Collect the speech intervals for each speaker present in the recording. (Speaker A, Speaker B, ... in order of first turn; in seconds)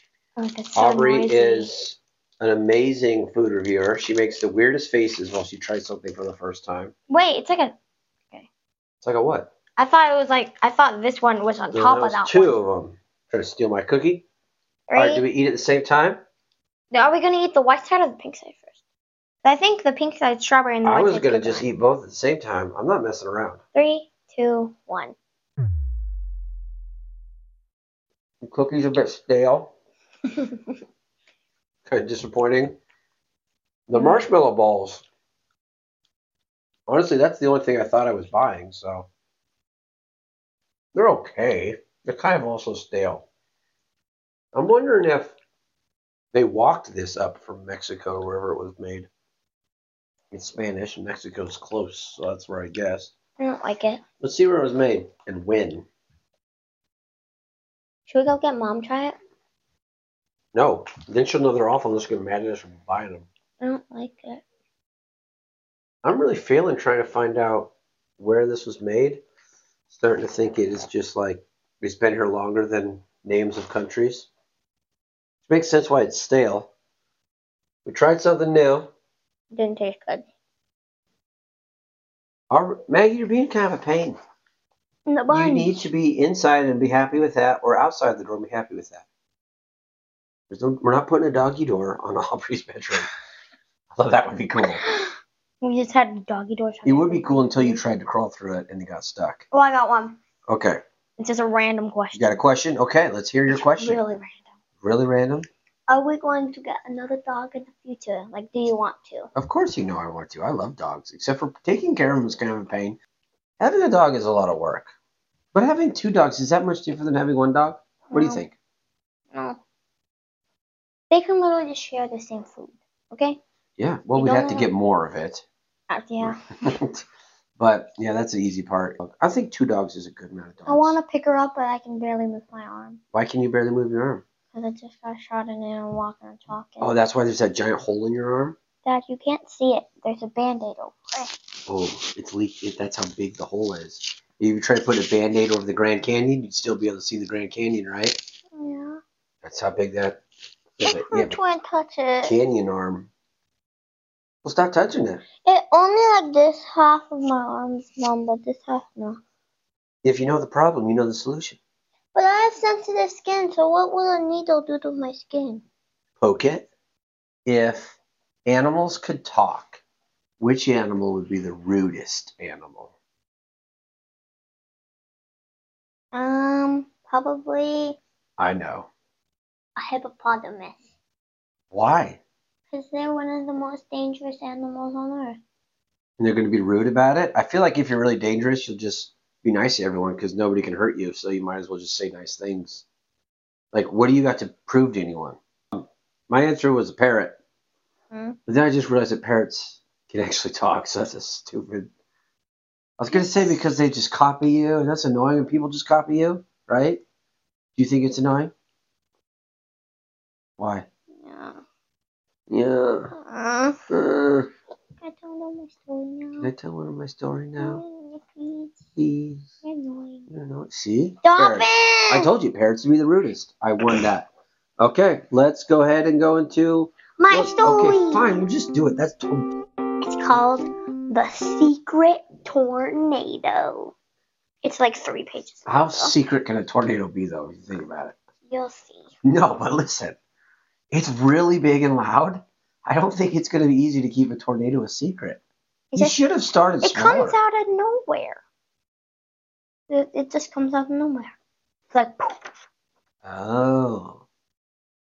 Speaker A: 0.4-1.7, 7.1-7.7, 9.8-12.6, 14.9-15.2, 16.9-18.6, 19.4-21.6, 23.7-25.1, 34.0-34.2, 53.4-54.0, 58.1-59.1, 63.6-64.4, 79.5-80.2, 85.1-85.8, 94.8-97.8, 99.5-100.2, 101.2-102.4, 103.5-104.4, 105.9-109.3, 118.1-118.5, 119.3-119.6, 121.1-123.4, 124.2-124.7, 125.9-126.4, 130.7-133.0, 134.5-136.9, 138.8-141.4, 148.6-149.0, 150.8-152.4, 155.4-159.2, 162.2-165.6, 176.1-178.0, 179.8-180.9, 182.7-185.4, 198.1-198.4, 203.1-203.6, 211.2-211.6, 213.2-213.8, 215.0-216.5, 217.6-218.8, 219.6-220.3, 221.2-222.3, 227.2-228.3, 230.0-233.9, 234.6-236.2, 238.5-239.1, 245.9-246.2, 246.8-248.4, 249.9-251.3, 251.9-252.4
Speaker B: 0.8-6.9, 9.0-9.5, 11.7-14.2, 14.9-16.2, 20.8-23.6, 28.4-29.7, 31.9-32.8, 33.9-35.0, 36.9-39.1, 40.9-43.3, 44.5-45.3, 46.3-49.1, 50.3-53.1, 54.2-55.9, 60.5-63.3, 66.0-69.2, 69.9-74.3, 75.5-76.7, 77.8-78.9, 82.5-84.2, 85.3-89.0, 90.5-93.1, 93.9-94.8, 96.8-99.5, 100.5-100.8, 102.1-104.0, 104.8-105.5, 109.3-113.0, 113.6-114.9, 115.5-118.5, 123.8-125.4, 126.2-127.0, 127.6-131.0, 133.1-134.2, 136.8-138.6, 141.7-148.2, 149.4-150.2, 150.8-151.4, 152.2-153.1, 154.4-155.2, 160.0-161.6, 166.2-166.7, 167.5-169.8, 170.4-172.9, 178.4-178.9, 181.7-182.2, 186.2-192.8, 193.7-197.4, 198.5-201.9, 203.0-207.0, 207.8-208.5, 210.6-210.9, 212.5-213.2, 213.9-214.5, 216.4-217.8, 219.0-219.5, 220.3-229.5, 235.7-238.2, 239.2-240.2, 240.9-245.4, 245.9-247.4, 253.2-254.2